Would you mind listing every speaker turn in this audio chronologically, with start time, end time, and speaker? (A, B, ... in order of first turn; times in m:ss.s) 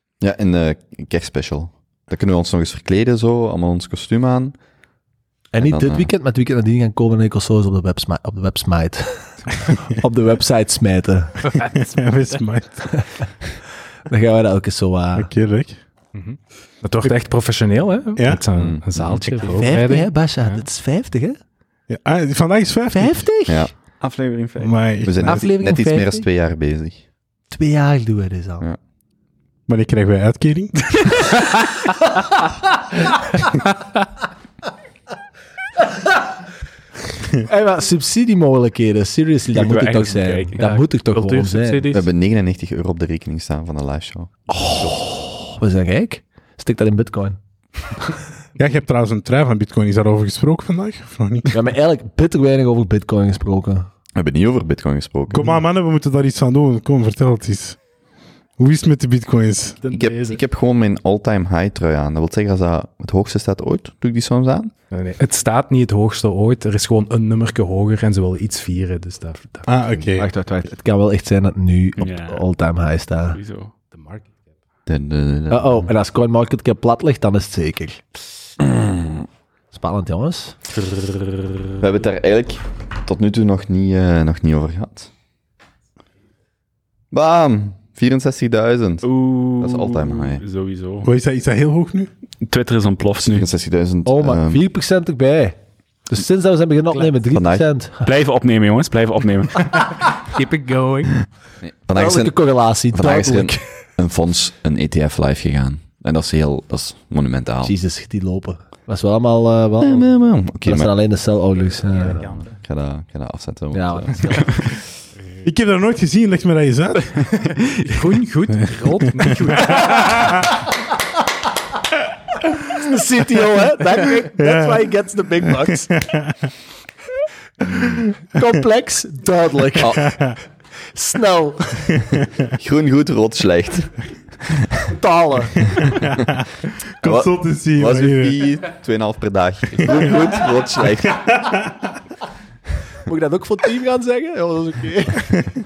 0:00.2-0:04.6 A
0:05.5-0:11.6 B
0:05.6-0:06.1 A
0:11.6-0:12.4 C
0:11.7-0:13.3 D
0:12.9-0:13.2 B
0:14.1-0:15.3 B
0:15.2-0:15.9 D
0:16.1-0:20.6 C
0:18.2-0:18.4 D
0:18.6-0:19.6 A
0:19.5-0:21.4 B
0:21.9-0:23.3 D
0:22.9-0:23.7 B
0:23.5-0:23.7 A
0:24.0-0:24.8 E
0:24.6-0:25.4 D
0:25.0-0:27.0 A
0:25.2-0:26.3 B
0:27.5-0:28.6 B
0:29.7-0:31.3 D
0:37.4-0:41.8 B
0:39.5-0:40.6 E
0:40.6-0:42.0 C
0:41.9-0:45.0 A
0:44.5-0:47.4 B
0:47.9-0:48.2 B
0:48.6-0:51.6 D
0:51.5-0:53.9 B
0:54.2-0:55.4 A
0:55.3-0:57.8 D
0:58.6-0:59.8 D
0:59.8-1:00.4 C
0:59.9-1:04.7 A
1:04.9-1:09.7 C
1:09.7-1:10.3 D
1:10.1-1:13.4 B
1:12.0-1:12.4 E
1:13.3-1:13.7 E
1:13.9-1:14.4 C
1:14.9-1:15.9 A
1:15.5-1:18.0 B
1:18.6-1:19.2 A
1:19.7-1:20.6 B
1:20.8-1:21.8 E
1:21.8-1:25.1 A
1:27.1-1:30.4 A
1:29.0-1:31.1 E
1:31.0-1:32.1 D
1:32.4-1:33.5 E
1:33.2-1:34.6 A
1:34.0-1:38.1 B
1:37.3-1:37.7 A
1:38.0-1:39.9 E
1:40.1-1:41.3 C
1:41.6-1:42.4 A
1:42.0-1:43.8 B
1:42.9-1:47.7 A
1:47.6-1:52.2 B
1:49.8-1:50.9 A
1:52.1-1:54.9 A
1:53.7-1:54.6 B
1:55.4-1:57.1 D
1:57.0-1:58.0 E
1:57.9-2:00.3 C
1:59.2-2:00.4 D
2:02.5-2:05.9 B
2:06.1-2:06.3 D
2:07.7-2:10.1 B
2:09.8-2:10.2 A
2:10.9-2:12.0 B
2:12.5-2:14.7 A
2:14.9-2:15.9 B
2:16.0-2:16.4 D
2:17.0-2:18.5 D
2:17.0-2:21.4 A
2:19.8-2:20.1 D
2:23.1-2:25.3 B